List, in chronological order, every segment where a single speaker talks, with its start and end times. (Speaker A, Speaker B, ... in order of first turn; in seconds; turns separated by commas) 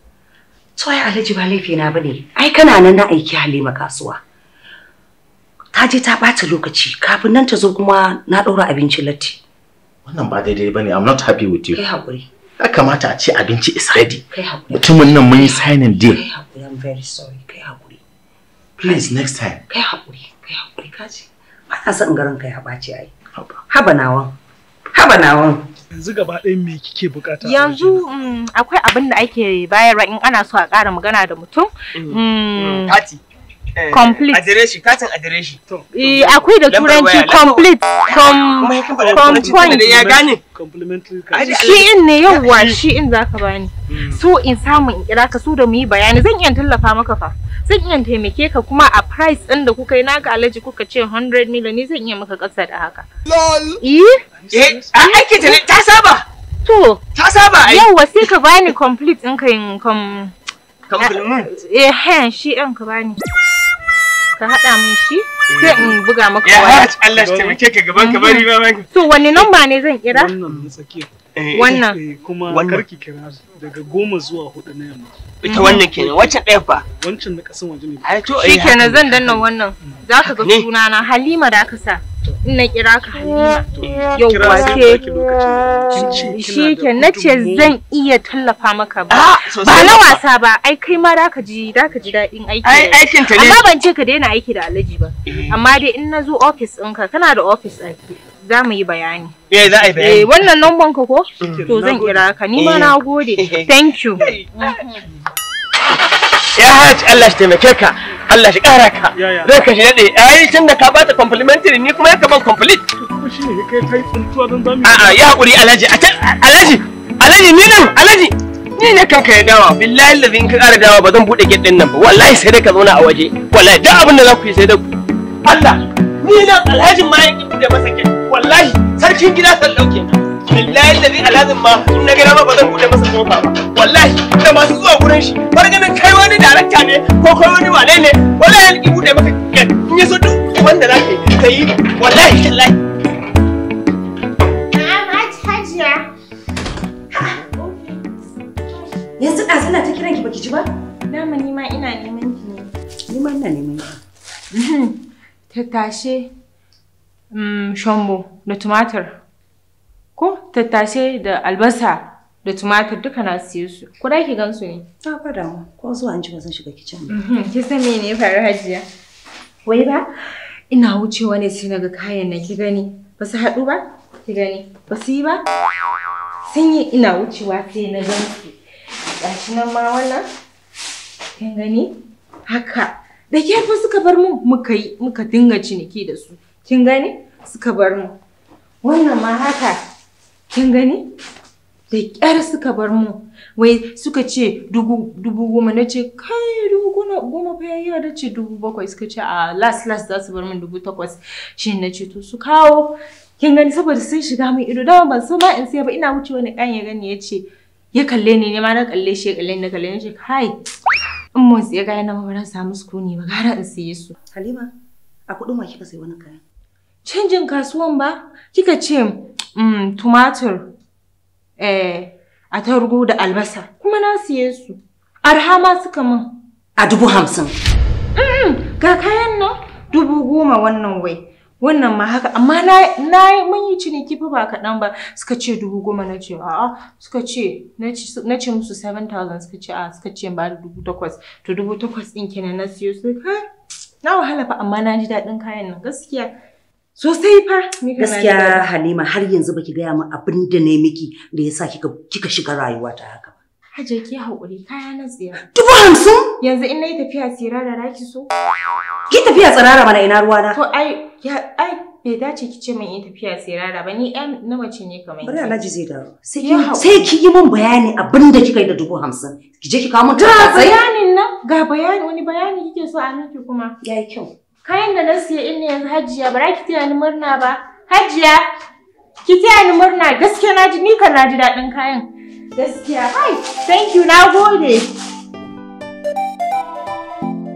Speaker A: 0.8-4.2, Speaker A: 5.7-9.4, Speaker B: 10.0-11.8, Speaker A: 11.7-12.3, Speaker B: 12.6-16.2, Speaker A: 14.2-18.0, Speaker B: 18.8-19.6, Speaker A: 18.8-19.1, Speaker A: 19.7-23.1, Speaker B: 23.3-23.6, Speaker A: 23.7-24.4, Speaker A: 24.9-25.7, Speaker C: 25.9-28.0, Speaker D: 27.4-33.0, Speaker E: 31.9-33.2, Speaker E: 33.8-35.6, Speaker D: 33.9-34.4, Speaker C: 35.7-36.5, Speaker D: 35.9-39.9, Speaker E: 36.7-40.4, Speaker C: 39.0-41.6, Speaker E: 41.3-42.8, Speaker D: 41.5-53.0, Speaker E: 43.9-44.2, Speaker E: 53.2-53.8, Speaker D: 53.8-54.2, Speaker C: 54.4-54.9, Speaker E: 54.5-56.2, Speaker D: 55.0-55.6, Speaker D: 56.6-57.0, Speaker E: 57.1-58.3, Speaker D: 57.6-60.3, Speaker E: 60.9-61.5, Speaker D: 61.0-63.2, Speaker D: 64.3-66.9, Speaker E: 65.5-69.5, Speaker C: 67.1-67.6, Speaker D: 68.0-70.3, Speaker C: 70.1-78.2, Speaker E: 71.3-71.8, Speaker D: 71.5-72.0, Speaker E: 72.5-72.8, Speaker E: 75.4-76.8, Speaker D: 75.4-75.8, Speaker E: 78.0-79.4, Speaker D: 78.4-85.0, Speaker E: 80.2-80.7, Speaker C: 83.7-87.7, Speaker D: 85.9-99.3, Speaker E: 89.1-90.2, Speaker E: 92.6-93.6, Speaker E: 95.3-95.6, Speaker E: 99.5-100.3, Speaker D: 100.0-105.0, Speaker C: 101.4-102.3, Speaker E: 102.5-103.7, Speaker E: 104.2-104.8, Speaker E: 106.5-112.8, Speaker C: 109.1-109.5, Speaker C: 113.0-115.3, Speaker E: 114.8-124.9, Speaker E: 125.4-142.8, Speaker D: 144.7-146.0, Speaker D: 147.1-148.1, Speaker A: 149.2-150.7, Speaker D: 151.1-152.7, Speaker A: 153.1-154.0, Speaker D: 154.5-156.3, Speaker D: 157.3-159.2, Speaker D: 160.2-164.9, Speaker A: 165.0-167.2, Speaker D: 167.1-168.8, Speaker D: 169.6-170.1, Speaker D: 170.7-175.4, Speaker D: 176.5-178.6, Speaker D: 179.2-180.2, Speaker D: 181.4-188.1, Speaker D: 188.8-189.8, Speaker D: 190.5-191.0, Speaker D: 191.9-210.5, Speaker D: 211.3-214.1, Speaker A: 214.3-214.7, Speaker A: 215.3-216.4, Speaker D: 217.0-220.7, Speaker D: 221.6-226.4, Speaker A: 226.8-227.5, Speaker D: 228.2-243.4, Speaker D: 244.0-246.3, Speaker D: 247.0-248.6, Speaker A: 248.0-253.3, Speaker D: 253.7-255.5, Speaker A: 255.5-256.3, Speaker D: 256.4-258.3, Speaker A: 259.1-260.6, Speaker D: 260.5-265.7, Speaker A: 265.2-270.8, Speaker D: 266.4-267.1, Speaker D: 270.1-273.8, Speaker A: 273.8-274.3, Speaker D: 274.6-278.4, Speaker D: 279.2-284.9